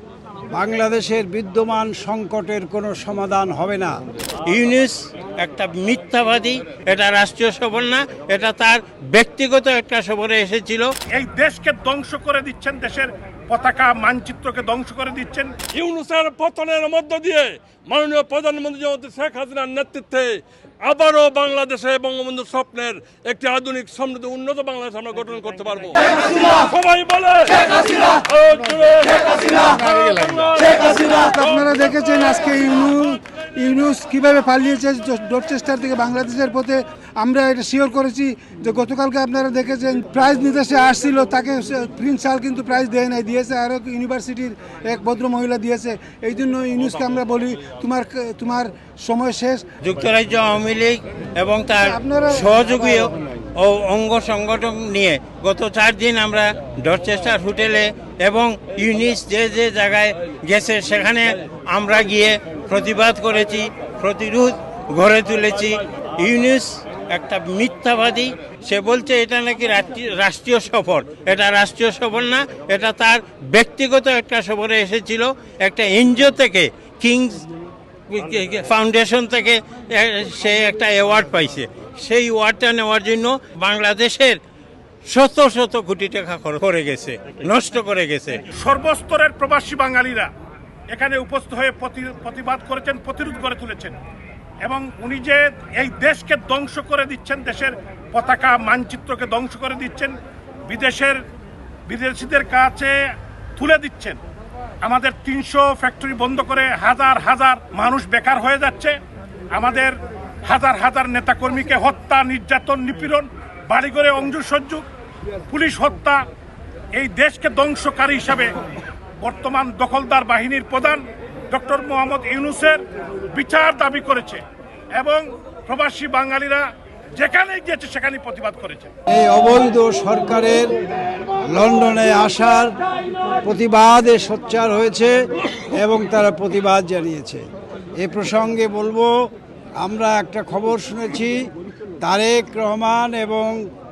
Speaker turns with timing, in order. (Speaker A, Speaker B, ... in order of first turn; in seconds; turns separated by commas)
Speaker A: 0.5-4.0, Speaker B: 4.5-10.9, Speaker C: 11.1-15.5, Speaker D: 15.7-32.7, Speaker E: 31.3-49.7, Speaker B: 49.8-77.5, Speaker E: 51.9-52.5, Speaker B: 78.1-84.4, Speaker B: 85.1-88.4, Speaker C: 88.5-90.3, Speaker C: 90.9-94.0, Speaker C: 94.6-100.2, Speaker C: 100.7-101.2, Speaker C: 101.9-103.0, Speaker C: 103.6-104.2, Speaker C: 104.8-109.0, Speaker C: 109.5-114.8, Speaker C: 115.5-116.2, Speaker C: 117.0-118.6, Speaker C: 119.2-124.4, Speaker C: 125.0-126.7, Speaker C: 127.2-128.9, Speaker A: 129.1-130.7, Speaker A: 131.5-132.8, Speaker A: 133.4-137.4, Speaker A: 138.0-139.1, Speaker A: 139.8-141.4, Speaker A: 142.0-143.6